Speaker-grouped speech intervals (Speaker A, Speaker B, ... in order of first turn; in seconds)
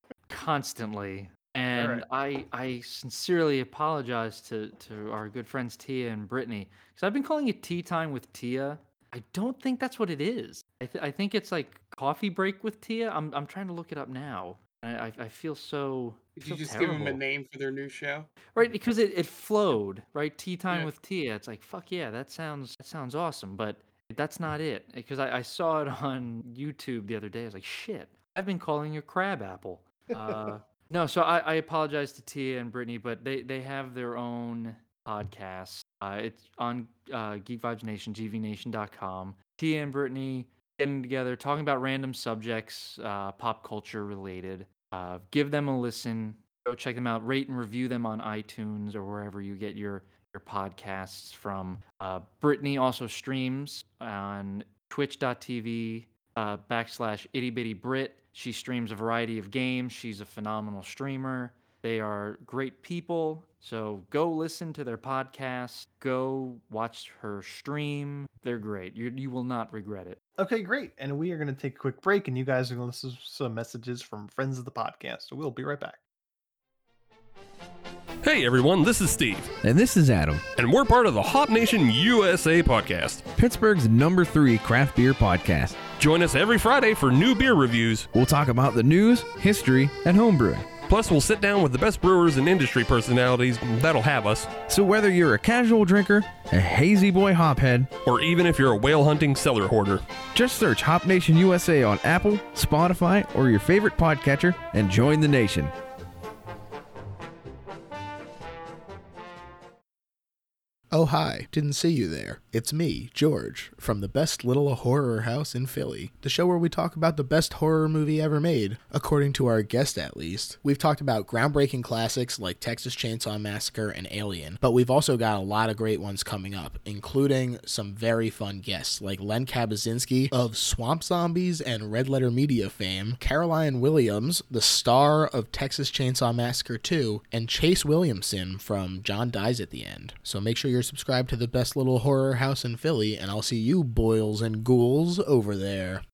Speaker A: 0.3-17.2, 18.5-70.2
Speaker B: 1.8-2.0, 70.4-76.0
Speaker C: 16.4-18.3
Speaker D: 78.2-79.6, 80.5-83.3, 85.9-88.1, 90.8-94.6, 98.0-100.0
Speaker E: 79.6-80.5, 83.3-85.9, 88.1-90.8, 94.6-97.9, 100.3-105.7
Speaker F: 110.9-146.0